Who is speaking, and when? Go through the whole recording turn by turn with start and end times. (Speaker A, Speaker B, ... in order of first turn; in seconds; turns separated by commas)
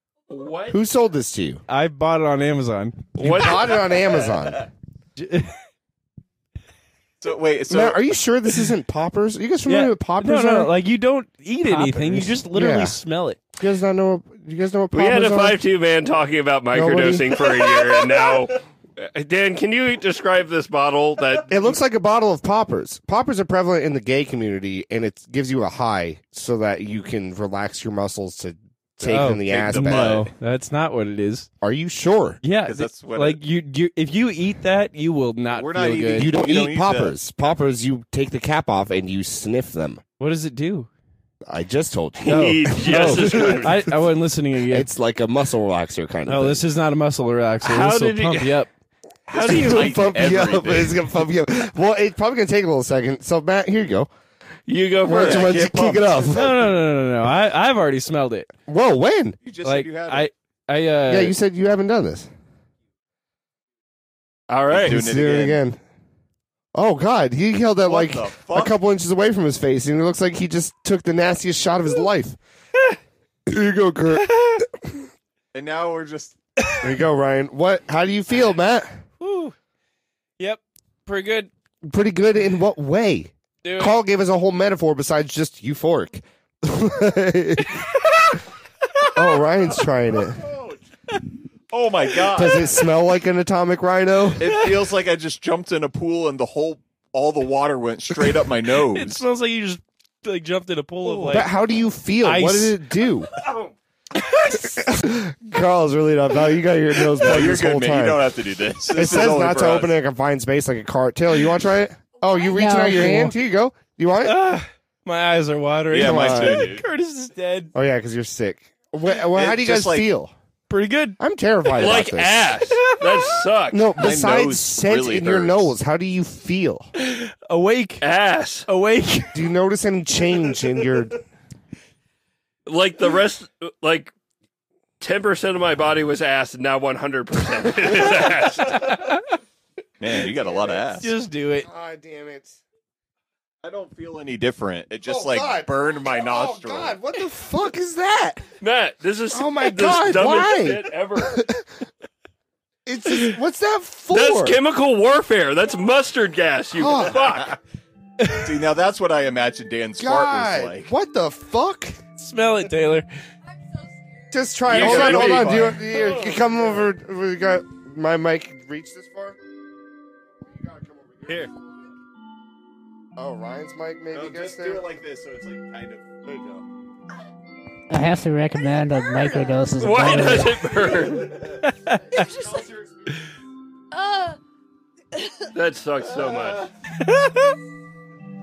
Speaker A: 0.3-0.8, Speaker B: 0.7-1.6, Speaker C: 1.7-3.5, Speaker A: 3.2-3.8, Speaker B: 3.2-4.7, Speaker C: 5.2-5.6, Speaker D: 7.2-8.0, Speaker B: 7.7-10.7, Speaker C: 9.7-13.4, Speaker B: 11.8-13.0, Speaker B: 13.6-15.6, Speaker A: 14.9-21.6, Speaker B: 16.7-18.0, Speaker B: 21.5-30.2, Speaker C: 29.0-31.5, Speaker D: 29.4-30.3, Speaker B: 31.6-32.4, Speaker C: 32.4-36.4, Speaker D: 32.6-33.4, Speaker D: 35.5-37.2, Speaker B: 36.1-40.0, Speaker C: 40.2-40.9, Speaker B: 41.4-43.8, Speaker A: 42.2-43.8, Speaker C: 42.3-44.9, Speaker B: 44.7-46.6, Speaker C: 46.3-48.7, Speaker A: 47.6-48.6, Speaker B: 49.3-54.1, Speaker D: 49.3-51.0, Speaker A: 49.3-50.1, Speaker A: 54.7-56.0, Speaker B: 55.1-56.7, Speaker D: 55.1-56.0, Speaker C: 56.3-58.5, Speaker B: 58.7-59.4, Speaker D: 59.4-60.3, Speaker C: 59.6-61.4, Speaker B: 61.1-62.3, Speaker A: 64.5-65.0, Speaker D: 64.7-65.6, Speaker B: 64.8-65.8, Speaker B: 66.7-72.4, Speaker D: 67.8-68.8, Speaker B: 73.5-74.6, Speaker D: 75.5-76.4, Speaker B: 76.8-79.0, Speaker C: 79.2-79.5, Speaker C: 80.4-81.5, Speaker B: 81.8-87.8, Speaker C: 83.6-84.0, Speaker B: 89.1-90.4, Speaker D: 90.4-90.8, Speaker D: 91.7-92.8, Speaker B: 92.3-94.5, Speaker D: 94.4-99.2, Speaker C: 98.9-101.5, Speaker B: 101.3-103.3, Speaker C: 102.2-102.8, Speaker A: 103.4-103.7, Speaker B: 104.4-108.3, Speaker D: 107.1-109.9, Speaker B: 108.9-114.4, Speaker E: 112.5-113.3, Speaker C: 114.2-117.7, Speaker D: 115.9-116.8, Speaker B: 115.9-116.7, Speaker B: 117.7-120.3, Speaker D: 119.3-120.1, Speaker C: 120.7-121.2, Speaker B: 121.2-122.6, Speaker A: 121.8-123.9, Speaker C: 122.9-123.2, Speaker B: 123.7-126.9, Speaker D: 124.0-125.7, Speaker C: 127.0-128.1, Speaker A: 128.0-128.7, Speaker C: 128.7-129.4, Speaker B: 129.3-131.2, Speaker A: 132.7-134.1, Speaker A: 135.0-138.9, Speaker C: 138.7-139.2, Speaker D: 140.0-141.1, Speaker B: 140.4-140.8, Speaker C: 141.0-141.7, Speaker B: 141.6-142.6, Speaker D: 143.6-147.0, Speaker B: 145.1-148.4, Speaker A: 148.6-151.5, Speaker B: 149.3-151.6, Speaker B: 152.9-154.6, Speaker A: 154.1-157.6, Speaker B: 156.8-157.4, Speaker D: 157.2-157.6, Speaker D: 158.3-160.9, Speaker B: 160.0-162.0, Speaker C: 162.2-163.1, Speaker B: 164.3-169.4, Speaker D: 164.7-165.8, Speaker A: 164.8-166.6, Speaker B: 170.4-171.5, Speaker A: 171.3-171.5, Speaker B: 173.2-174.9, Speaker D: 174.1-176.6, Speaker F: 177.9-180.7, Speaker A: 179.8-181.5, Speaker C: 181.7-182.3, Speaker E: 182.1-182.7, Speaker E: 183.9-184.4, Speaker A: 185.5-186.7, Speaker C: 187.1-187.4